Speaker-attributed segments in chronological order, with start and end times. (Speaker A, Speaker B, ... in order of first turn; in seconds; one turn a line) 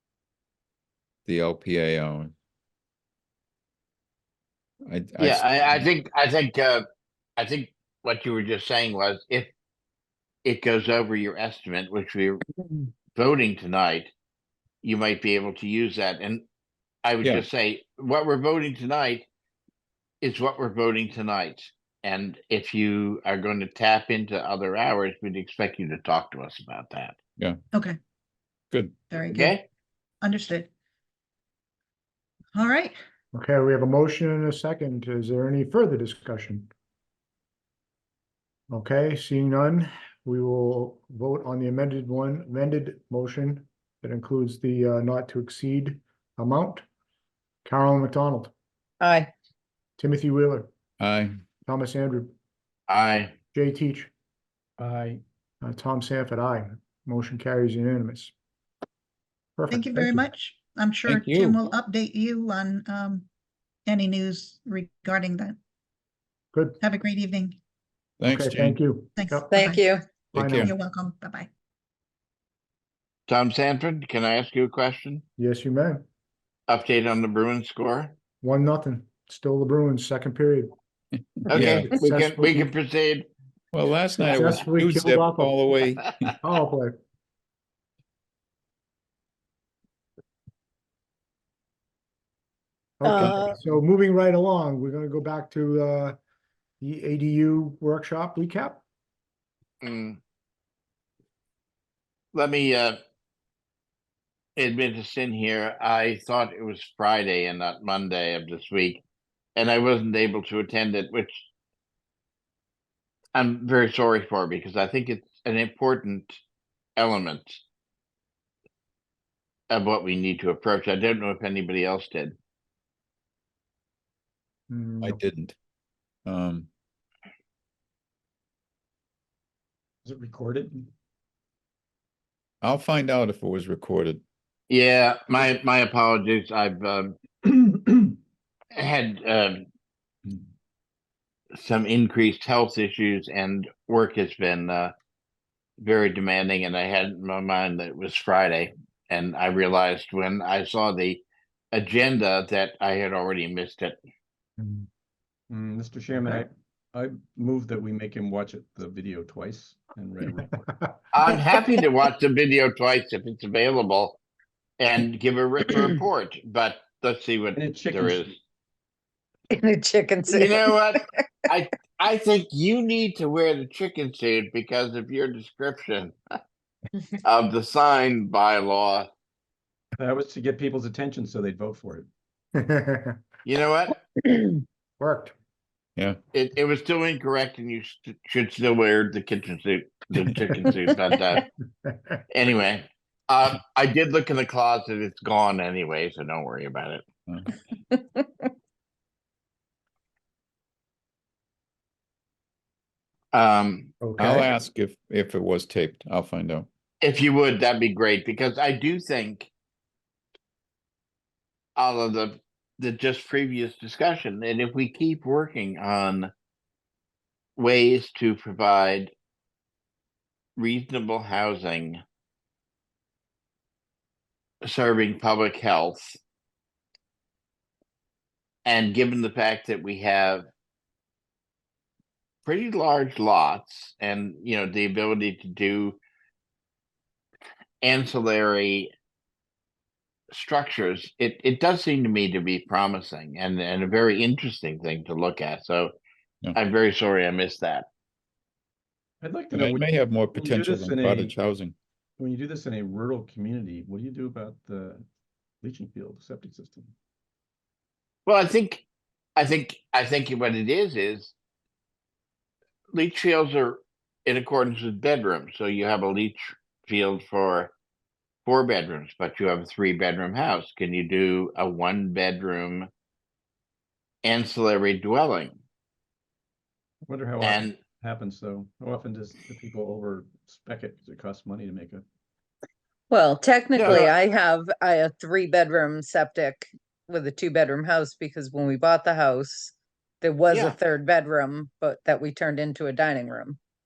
Speaker A: 1.3-2.3
Speaker A: 4.9-5.9
Speaker B: 5.2-6.8
Speaker B: 7.4-9.5
Speaker B: 10.4-12.4
Speaker B: 13.1-14.1
Speaker B: 14.8-16.4
Speaker B: 17.0-19.3
Speaker B: 20.2-27.2
Speaker C: 27.7-28.0
Speaker C: 29.1-29.6
Speaker B: 29.3-29.6
Speaker C: 30.2-30.7
Speaker C: 32.5-33.0
Speaker D: 33.3-36.7
Speaker D: 38.7-46.9
Speaker D: 47.6-48.5
Speaker E: 49.0-49.3
Speaker D: 50.0-50.7
Speaker A: 51.0-51.4
Speaker D: 51.7-52.3
Speaker B: 52.9-53.3
Speaker D: 53.5-54.1
Speaker F: 54.8-55.2
Speaker D: 55.6-58.3
Speaker D: 59.6-60.3
Speaker C: 59.7-63.3
Speaker C: 63.9-65.6
Speaker D: 66.5-66.8
Speaker C: 66.8-67.6
Speaker A: 68.2-68.8
Speaker D: 68.3-69.5
Speaker C: 69.2-69.9
Speaker E: 69.5-70.0
Speaker A: 70.3-70.7
Speaker D: 70.3-70.7
Speaker C: 70.5-71.5
Speaker B: 73.3-75.2
Speaker D: 75.4-76.0
Speaker B: 76.7-78.1
Speaker D: 78.4-80.7
Speaker B: 81.5-83.3
Speaker A: 81.5-81.9
Speaker D: 81.5-82.7
Speaker A: 83.7-86.4
Speaker D: 84.2-85.6
Speaker D: 86.4-87.0
Speaker D: 93.0-96.2
Speaker E: 93.0-93.6
Speaker D: 96.8-98.8
Speaker B: 99.8-100.2
Speaker B: 102.3-103.0
Speaker B: 104.6-109.0
Speaker B: 109.6-111.5
Speaker B: 113.3-116.4
Speaker B: 117.0-117.6
Speaker B: 119.7-122.3
Speaker D: 124.7-125.2
Speaker A: 125.0-125.6
Speaker A: 126.3-126.7
Speaker F: 130.1-130.9
Speaker A: 132.6-134.2
Speaker B: 134.7-137.2
Speaker F: 137.5-138.1
Speaker B: 138.7-139.7
Speaker B: 141.6-144.9
Speaker B: 145.8-154.0
Speaker D: 154.6-154.9
Speaker F: 155.5-160.8
Speaker B: 161.1-164.2
Speaker B: 164.8-168.3
Speaker F: 167.6-168.3
Speaker E: 169.5-171.5
Speaker B: 170.3-176.2
Speaker B: 177.2-179.1
Speaker F: 180.0-182.1
Speaker D: 182.6-183.2
Speaker B: 183.4-184.0
Speaker D: 185.0-185.3
Speaker B: 186.3-191.4
Speaker D: 191.9-192.2
Speaker B: 192.3-197.0
Speaker E: 197.9-198.2
Speaker B: 203.3-203.9
Speaker D: 204.0-204.5
Speaker A: 204.2-206.7
Speaker B: 207.0-209.5
Speaker B: 211.8-216.3
Speaker B: 217.6-219.1
Speaker B: 220.6-222.0
Speaker B: 224.7-226.2
Speaker B: 228.7-230.5
Speaker B: 232.4-236.0
Speaker B: 237.8-238.9
Speaker B: 240.3-245.9
Speaker B: 246.5-247.9
Speaker F: 249.2-251.4
Speaker A: 249.5-251.8
Speaker F: 252.2-255.0
Speaker F: 255.6-256.9
Speaker B: 258.3-258.9
Speaker B: 259.4-261.3
Speaker B: 262.9-267.7
Speaker B: 268.5-272.9
Speaker B: 274.2-275.6
Speaker F: 277.1-282.0
Speaker B: 277.4-277.8
Speaker E: 283.1-293.6
Speaker B: 283.8-284.1
Speaker B: 290.5-290.8